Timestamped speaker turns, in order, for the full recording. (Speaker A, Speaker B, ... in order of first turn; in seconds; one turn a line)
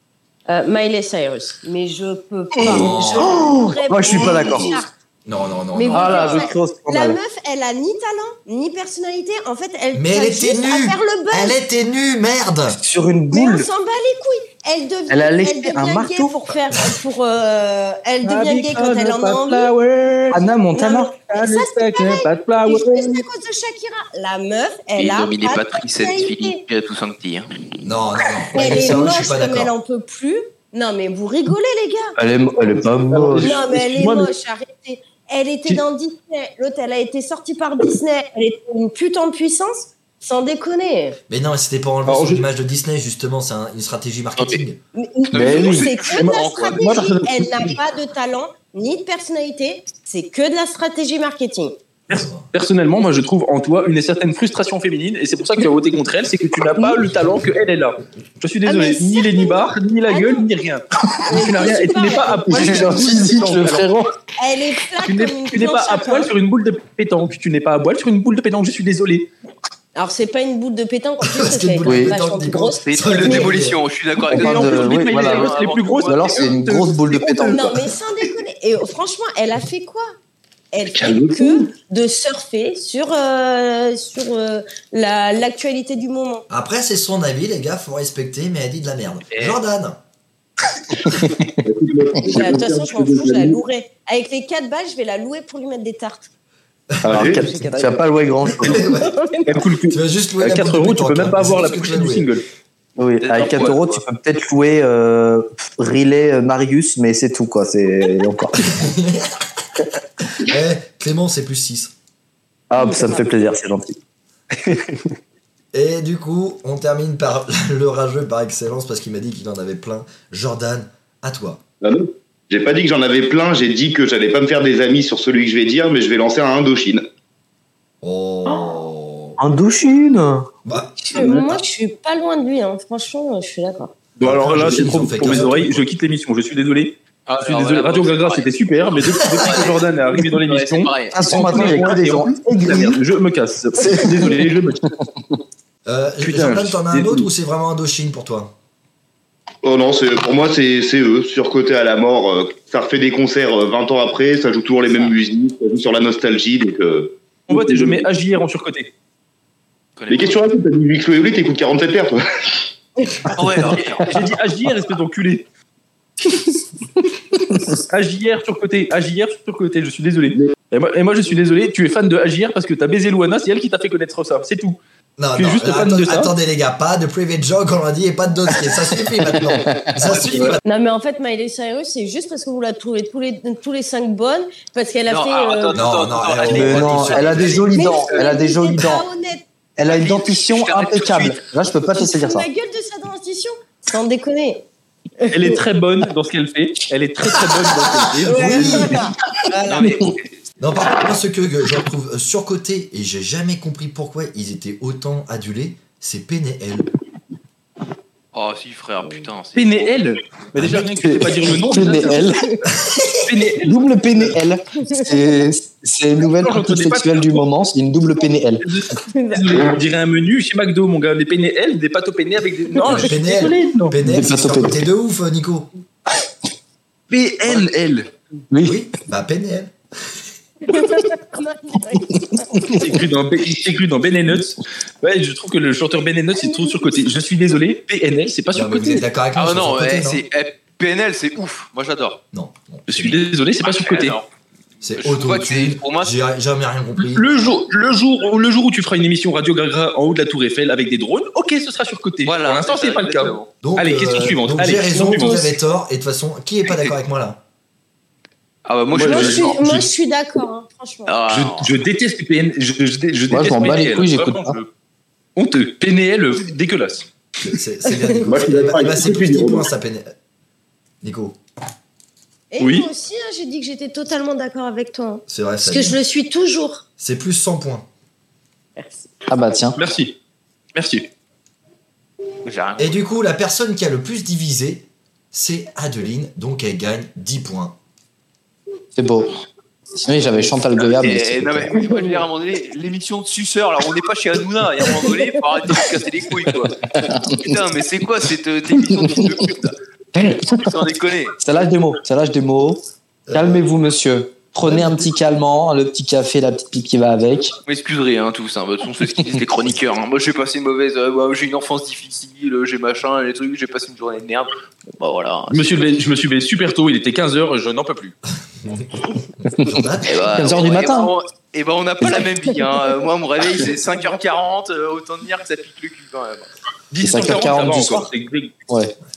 Speaker A: 0.5-4.9
Speaker B: 2.6-4.8
Speaker C: 2.6-3.5
Speaker D: 4.1-4.7
Speaker C: 5.3-6.4
Speaker A: 5.7-11.6
Speaker B: 5.9-7.2
Speaker C: 9.9-12.8
Speaker B: 12.7-13.7
Speaker A: 13.3-19.7
Speaker B: 15.1-16.3
Speaker E: 18.2-20.3
Speaker B: 20.3-23.2
Speaker A: 20.7-26.6
Speaker D: 25.0-27.5
Speaker C: 27.8-29.7
Speaker A: 28.5-32.2
Speaker B: 32.2-33.6
Speaker E: 33.1-34.3
Speaker A: 33.3-41.2
Speaker C: 41.3-44.8
Speaker E: 42.0-42.5
Speaker A: 45.0-51.8
Speaker D: 45.3-46.8
Speaker B: 45.3-45.9
Speaker E: 45.4-47.7
Speaker E: 52.1-63.9
Speaker C: 52.1-52.5
Speaker A: 58.6-60.5
Speaker A: 61.3-62.9
Speaker B: 62.5-64.1
Speaker A: 64.4-66.3
Speaker E: 65.0-69.3
Speaker A: 70.0-73.5
Speaker C: 71.2-73.8
Speaker B: 71.8-72.2
Speaker D: 72.9-76.5
Speaker B: 74.3-75.5
Speaker E: 74.4-77.7
Speaker B: 76.1-77.7
Speaker A: 77.5-80.1
Speaker A: 80.7-86.5
Speaker C: 86.5-90.0
Speaker D: 89.3-89.6
Speaker F: 91.6-93.6
Speaker A: 92.2-96.3
Speaker C: 96.9-97.3
Speaker F: 97.0-97.4
Speaker B: 97.0-98.9
Speaker A: 97.3-99.6
Speaker C: 98.5-99.1
Speaker E: 99.5-102.4
Speaker C: 99.9-102.3
Speaker B: 103.0-108.7
Speaker D: 103.2-104.0
Speaker C: 108.6-109.6
Speaker C: 110.2-111.9
Speaker B: 112.7-114.0
Speaker A: 112.8-113.2
Speaker B: 114.6-115.0
Speaker C: 115.7-121.6
Speaker F: 121.8-127.0
Speaker C: 128.0-129.4
Speaker B: 129.4-130.5
Speaker C: 130.7-131.6
Speaker A: 131.1-133.9
Speaker E: 134.2-144.8
Speaker C: 134.2-135.9
Speaker D: 137.3-138.5
Speaker D: 139.1-141.9
Speaker C: 139.3-139.7
Speaker B: 141.1-143.0
Speaker B: 143.8-144.5
Speaker C: 145.9-148.5
Speaker E: 146.2-147.3
Speaker F: 149.6-158.0
Speaker E: 157.5-158.9
Speaker D: 160.0-160.4
Speaker F: 160.1-162.6
Speaker D: 163.3-164.2
Speaker B: 163.7-164.3
Speaker E: 163.7-165.4
Speaker E: 167.8-174.8
Speaker C: 175.2-180.6
Speaker E: 175.3-176.3
Speaker B: 179.3-180.6
Speaker A: 180.7-185.8
Speaker D: 185.1-188.2
Speaker C: 185.7-187.7
Speaker B: 186.4-189.1
Speaker A: 187.8-189.4
Speaker B: 189.8-192.5
Speaker D: 189.8-191.4
Speaker A: 191.9-194.6
Speaker A: 195.2-195.6
Speaker E: 195.3-199.0
Speaker C: 197.7-199.0
Speaker A: 198.2-199.9
Speaker D: 199.6-200.2
Speaker C: 200.6-206.9
Speaker D: 208.3-209.9
Speaker E: 209.6-212.3
Speaker C: 210.6-210.9
Speaker B: 210.8-212.4
Speaker C: 212.8-213.1
Speaker E: 213.3-213.8
Speaker B: 213.4-218.7
Speaker E: 216.2-217.4
Speaker E: 218.6-224.0
Speaker A: 219.1-219.7
Speaker C: 222.8-225.7
Speaker B: 224.0-224.8
Speaker E: 227.1-228.1
Speaker D: 227.4-227.7
Speaker B: 228.5-228.8
Speaker C: 228.6-229.7
Speaker A: 230.7-232.7
Speaker E: 232.8-239.0
Speaker A: 236.3-236.8
Speaker C: 238.5-240.2
Speaker D: 239.3-242.2
Speaker C: 242.3-243.3
Speaker E: 242.9-244.2
Speaker D: 243.6-244.2
Speaker C: 244.8-247.3
Speaker D: 244.9-246.1
Speaker E: 247.0-255.5
Speaker D: 252.2-253.4
Speaker C: 253.6-257.4
Speaker A: 254.9-255.5
Speaker D: 258.7-259.6
Speaker E: 258.9-259.7
Speaker A: 259.0-261.2
Speaker D: 261.1-261.7
Speaker E: 261.3-264.7
Speaker B: 263.3-264.6
Speaker E: 265.4-267.1
Speaker C: 267.4-270.1
Speaker F: 268.2-269.7
Speaker C: 271.0-271.4
Speaker A: 272.5-276.8
Speaker E: 272.6-272.9
Speaker C: 275.3-276.0
Speaker C: 277.0-277.9
Speaker A: 278.8-279.0
Speaker B: 279.3-279.8
Speaker E: 279.8-280.1
Speaker E: 280.8-281.1
Speaker D: 282.4-283.0
Speaker C: 282.8-287.8
Speaker B: 288.9-289.3
Speaker B: 290.0-291.7
Speaker D: 290.8-296.8
Speaker A: 291.8-292.2
Speaker B: 296.9-297.5
Speaker D: 297.4-301.4
Speaker B: 300.1-300.7
Speaker B: 301.4-302.8
Speaker C: 303.3-303.6
Speaker B: 303.3-307.6
Speaker C: 304.6-305.1
Speaker D: 307.7-315.8
Speaker E: 315.5-318.2
Speaker C: 318.6-320.2
Speaker B: 319.6-321.1
Speaker D: 320.0-326.5
Speaker E: 326.9-328.6
Speaker B: 327.0-328.1